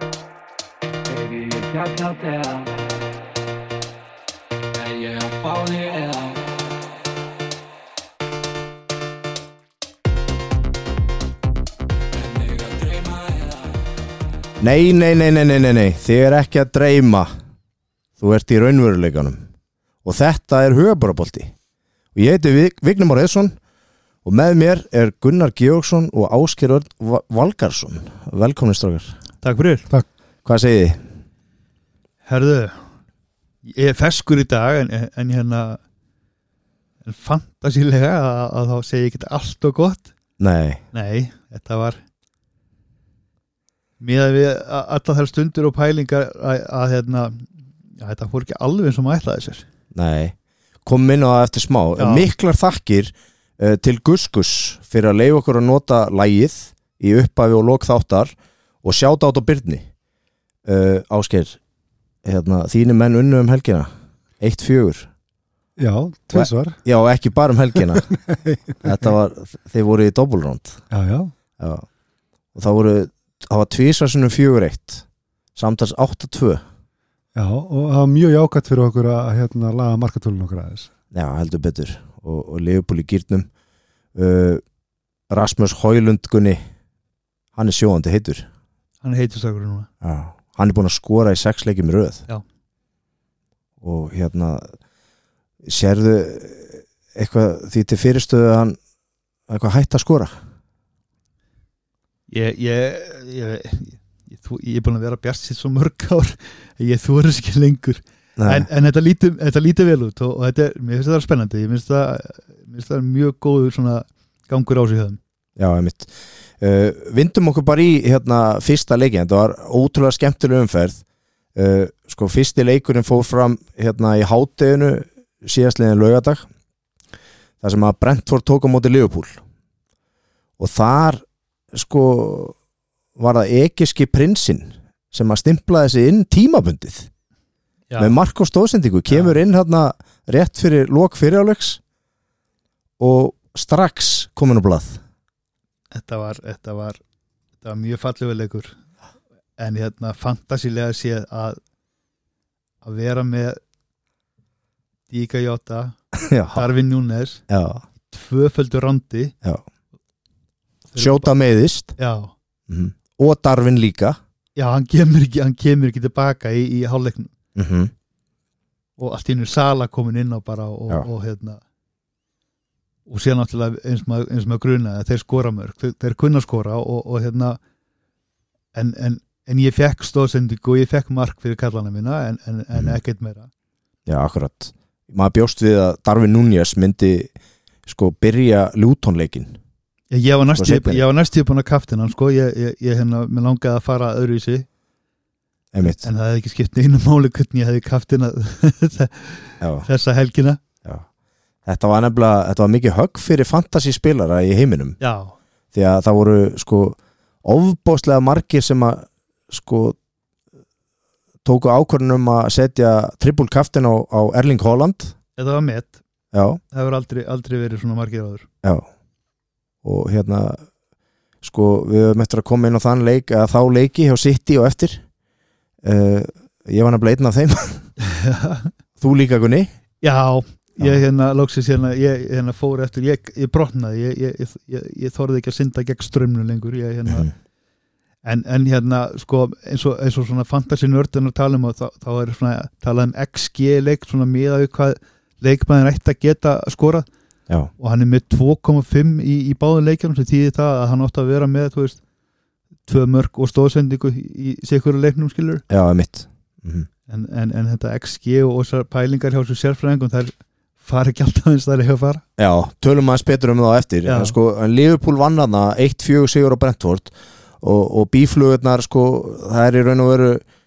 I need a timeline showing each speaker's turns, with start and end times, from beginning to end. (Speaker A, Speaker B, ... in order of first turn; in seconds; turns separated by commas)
Speaker A: 1.1-2.8, Speaker A: 4.7-6.6, Speaker A: 12.1-13.8, Speaker B: 14.6-17.3, Speaker B: 18.2-19.4, Speaker B: 20.0-21.5, Speaker B: 22.1-23.6, Speaker B: 24.2-29.1, Speaker C: 29.4-29.9, Speaker B: 30.4-31.0, Speaker C: 32.2-32.8, Speaker C: 33.6-35.8, Speaker C: 37.0-40.1, Speaker B: 40.4-40.8, Speaker C: 40.9-42.0, Speaker C: 44.0-49.6, Speaker B: 49.9-59.9, Speaker C: 52.0-52.3, Speaker B: 60.6-61.6, Speaker B: 62.2-63.9, Speaker B: 64.4-65.1, Speaker D: 65.8-66.8, Speaker B: 66.3-68.1, Speaker D: 68.1-68.7, Speaker B: 68.8-70.8, Speaker D: 70.9-71.3, Speaker B: 71.6-71.8, Speaker B: 72.5-75.0, Speaker B: 75.5-76.6, Speaker D: 77.3-80.9, Speaker B: 81.1-83.5, Speaker B: 84.1-84.6, Speaker B: 85.3-86.6, Speaker B: 87.5-88.5, Speaker C: 89.0-89.9, Speaker B: 90.0-92.2, Speaker B: 93.8-94.7, Speaker B: 95.6-98.8, Speaker B: 99.5-100.3, Speaker C: 102.3-115.2, Speaker B: 108.4-108.7, Speaker B: 115.6-121.0, Speaker B: 121.5-126.4, Speaker B: 127.6-129.4, Speaker B: 130.6-132.6, Speaker B: 133.2-137.1, Speaker C: 137.9-138.2, Speaker B: 138.0-141.8, Speaker C: 139.1-139.3, Speaker B: 143.0-145.0, Speaker C: 145.9-147.0, Speaker C: 147.6-148.7, Speaker C: 149.6-151.6, Speaker C: 152.8-153.6, Speaker C: 155.1-155.9, Speaker B: 156.2-156.7, Speaker C: 156.5-157.4, Speaker B: 157.5-157.8, Speaker C: 158.1-159.3, Speaker C: 160.9-161.3, Speaker B: 160.9-161.9, Speaker C: 162.0-162.3, Speaker B: 162.7-164.2, Speaker C: 164.6-167.3, Speaker B: 167.6-167.9, Speaker C: 169.0-171.6, Speaker C: 173.1-177.6, Speaker C: 178.7-183.5, Speaker B: 184.1-187.3, Speaker B: 187.8-189.6, Speaker C: 190.1-194.7, Speaker B: 190.5-191.0, Speaker B: 195.7-196.0, Speaker C: 195.8-200.6, Speaker B: 199.6-199.9, Speaker B: 201.6-205.0, Speaker C: 205.0-205.3, Speaker B: 205.7-209.9, Speaker B: 211.4-215.1, Speaker C: 215.4-215.9, Speaker B: 216.3-216.6, Speaker C: 216.7-218.5, Speaker B: 219.8-220.6, Speaker B: 221.4-225.0, Speaker B: 225.8-227.9, Speaker C: 228.0-228.7, Speaker B: 229.0-229.7, Speaker C: 230.0-237.3, Speaker C: 238.2-247.1, Speaker C: 247.8-252.0, Speaker C: 252.8-255.6, Speaker B: 255.7-256.9, Speaker C: 257.1-262.2, Speaker B: 262.4-270.4, Speaker C: 264.0-264.3